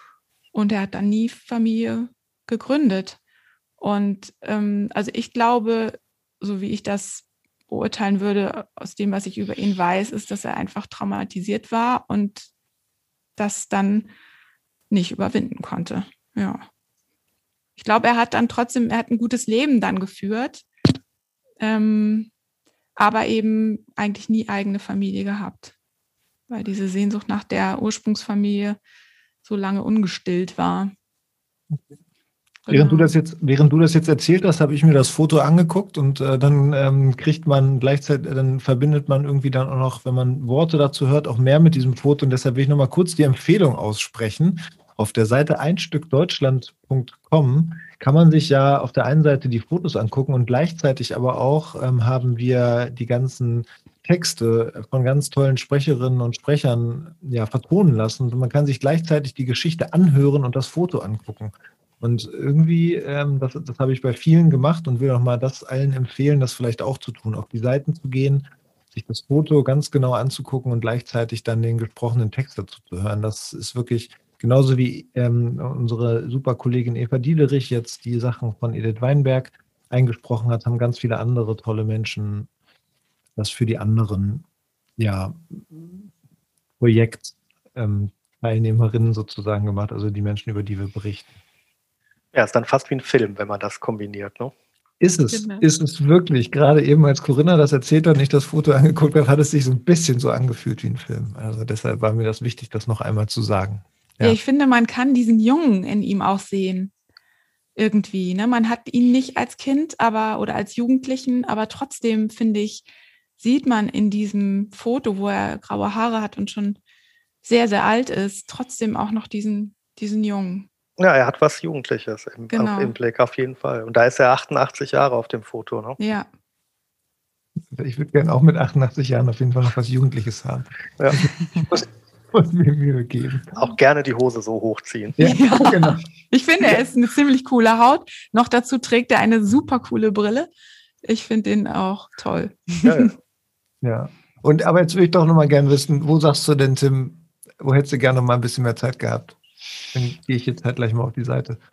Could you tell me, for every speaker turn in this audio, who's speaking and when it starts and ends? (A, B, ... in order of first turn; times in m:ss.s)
0:00.5-0:03.2 A
0:03.8-0:12.5 A
0:13.4-0:14.1 A
0:14.9-0:16.7 A
0:17.8-0:20.6 A
0:21.6-0:22.3 A
0:23.0-0:25.7 A
0:26.5-0:28.8 A
0:29.4-0:30.9 A
0:32.7-0:33.1 A
0:32.7-1:22.5 B
1:23.4-1:24.4 B
1:25.0-1:26.1 B
1:26.8-1:31.4 B
1:32.3-1:34.5 C
1:35.0-1:44.4 B
1:35.3-1:35.7 A
1:44.2-1:46.9 A
1:47.8-1:52.9 A
1:53.4-1:56.8 A
1:57.4-2:00.7 A
2:01.0-2:06.0 C
2:02.5-2:02.9 A
2:06.0-2:06.3 A
2:07.7-2:13.6 B
2:13.6-2:15.2 C
2:15.2-2:16.0 B
2:15.2-2:20.5 A
2:21.0-2:22.9 A
2:22.8-2:23.2 C
2:23.8-2:29.4 B
2:29.9-2:31.6 B